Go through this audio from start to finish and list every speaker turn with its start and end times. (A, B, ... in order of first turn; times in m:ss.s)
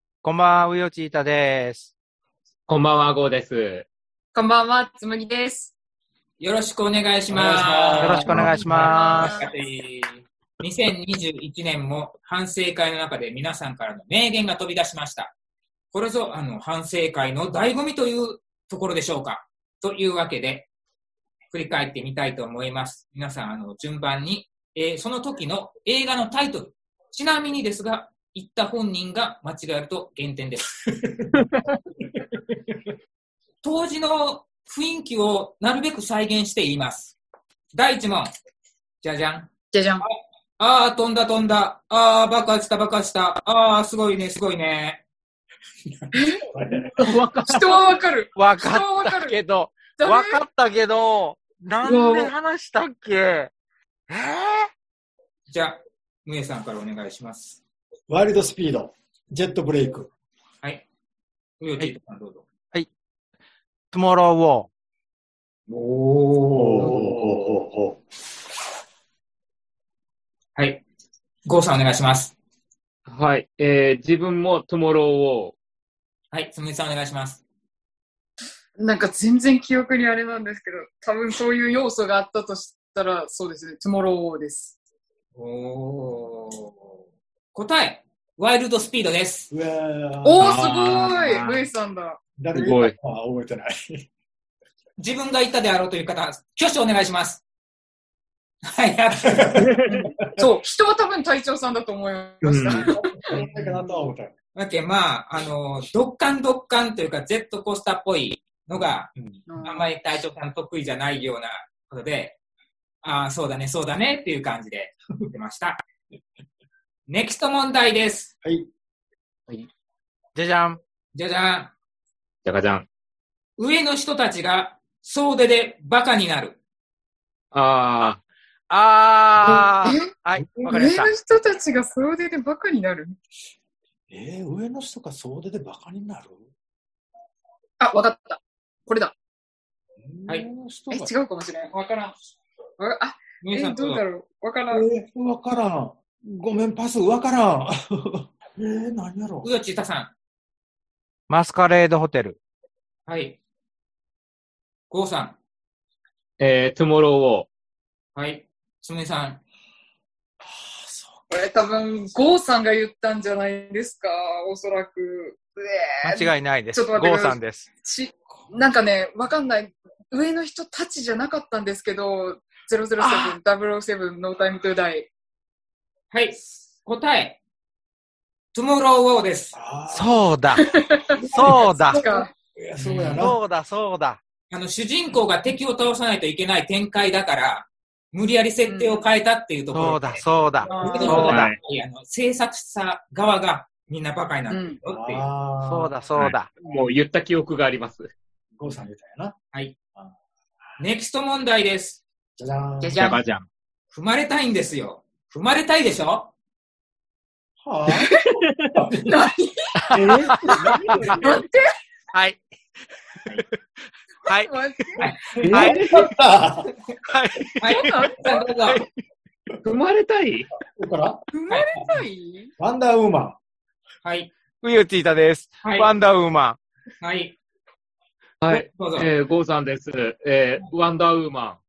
0:00.2-0:01.9 A
0:02.7-0:03.8 B
0:04.3-0:05.7 C
0:06.4-0:15.3 D
0:07.3-0:08.9 E
0:08.0-0:09.4 A
0:08.9-0:09.5 C
0:15.9-0:20.7 D
0:21.5-0:30.8 D
0:32.2-0:32.8 E
0:33.6-0:37.2 D
0:37.7-0:38.3 D
0:39.0-0:39.5 D
0:39.7-0:40.0 C
0:40.0-0:45.0 D
0:45.9-0:46.9 E
0:46.1-0:46.5 C
0:47.0-0:53.5 A
0:47.4-0:49.4 C
0:50.0-0:50.4 C
0:51.8-0:52.3 B
0:54.1-0:54.7 A
0:55.5-0:57.6 D
0:58.1-1:00.1 E
1:01.6-1:02.4 D
1:03.9-1:04.7 A
1:05.7-1:07.4 D
1:06.5-1:08.0 E
1:10.6-1:10.8 D
1:11.4-1:12.3 D
1:13.1-1:15.5 B
1:16.3-1:17.4 D
1:18.8-1:24.7 C
1:25.4-1:26.9 D
1:27.5-1:29.5 D
1:29.5-1:31.1 E
1:30.2-1:32.2 C
1:30.4-1:31.7 B
1:32.4-1:34.0 E
1:32.5-1:33.0 B
1:35.0-1:37.4 D
1:38.6-1:39.6 D
1:39.2-1:40.1 E
1:39.6-1:40.0 B
1:39.9-1:43.4 C
1:42.4-1:42.9 B
1:42.8-1:44.3 E
1:43.3-1:43.7 D
1:44.5-1:52.4 D
1:49.5-1:49.9 C
1:53.0-1:55.8 D
1:57.1-1:58.3 D
1:58.4-1:58.7 E
2:00.3-2:00.8 A
2:01.1-2:01.7 D
2:02.4-2:02.8 B
2:03.6-2:06.6 D
2:07.5-2:08.2 B
2:08.7-2:11.1 A
2:09.8-2:10.1 C
2:10.6-2:13.2 C
2:14.1-2:16.5 E
2:17.8-2:19.1 C
2:20.0-2:21.1 E
2:20.9-2:21.7 C
2:21.7-2:22.1 D
2:22.8-2:24.8 C
2:23.4-2:24.0 D
2:24.7-2:29.5 E
2:29.4-2:30.1 D
2:31.3-2:32.4 A
2:33.1-2:33.4 D
2:34.9-2:35.4 D
2:36.4-2:37.5 B
2:38.1-2:39.4 D
2:40.5-2:41.1 E
2:41.3-2:55.1 C
2:46.0-2:47.7 A
2:56.1-2:57.4 D
2:58.5-2:59.5 D
2:59.5-3:00.1 E
2:59.9-3:00.6 A
3:00.6-3:02.3 C
3:01.1-3:03.4 E
3:01.3-3:02.0 A
3:02.8-3:03.3 D
3:03.1-3:04.2 A
3:04.5-3:15.3 D
3:08.7-3:09.0 C
3:09.7-3:11.5 A
3:10.6-3:11.4 C
3:11.0-3:11.6 B
3:14.5-3:14.8 C
3:14.8-3:16.0 E
3:15.6-3:16.5 A
3:16.2-3:18.1 B
3:18.6-3:19.3 E
3:20.8-3:22.0 D
3:22.4-3:23.1 E
3:22.8-3:23.2 C
3:23.0-3:23.4 B
3:23.9-3:26.3 D
3:27.6-3:31.1 E
3:28.4-3:28.7 B
3:29.1-3:29.9 C
3:29.9-3:31.2 A
3:29.9-3:31.4 B
3:31.2-3:31.7 C
3:32.1-3:32.4 A
3:34.2-3:34.5 A
3:34.3-3:35.4 C
3:35.0-3:36.0 A
3:35.4-3:36.1 B
3:35.6-3:36.7 E
3:37.0-3:38.9 A
3:37.6-3:38.8 D
3:37.6-3:38.4 C
3:39.6-3:40.5 B
3:40.8-3:41.2 E
3:41.3-3:42.5 C
3:42.6-3:43.4 E
3:44.0-3:44.3 D
3:44.6-3:46.6 A
3:45.6-3:45.9 D
3:47.0-3:47.4 D
3:48.4-3:51.6 B
3:48.5-3:49.1 D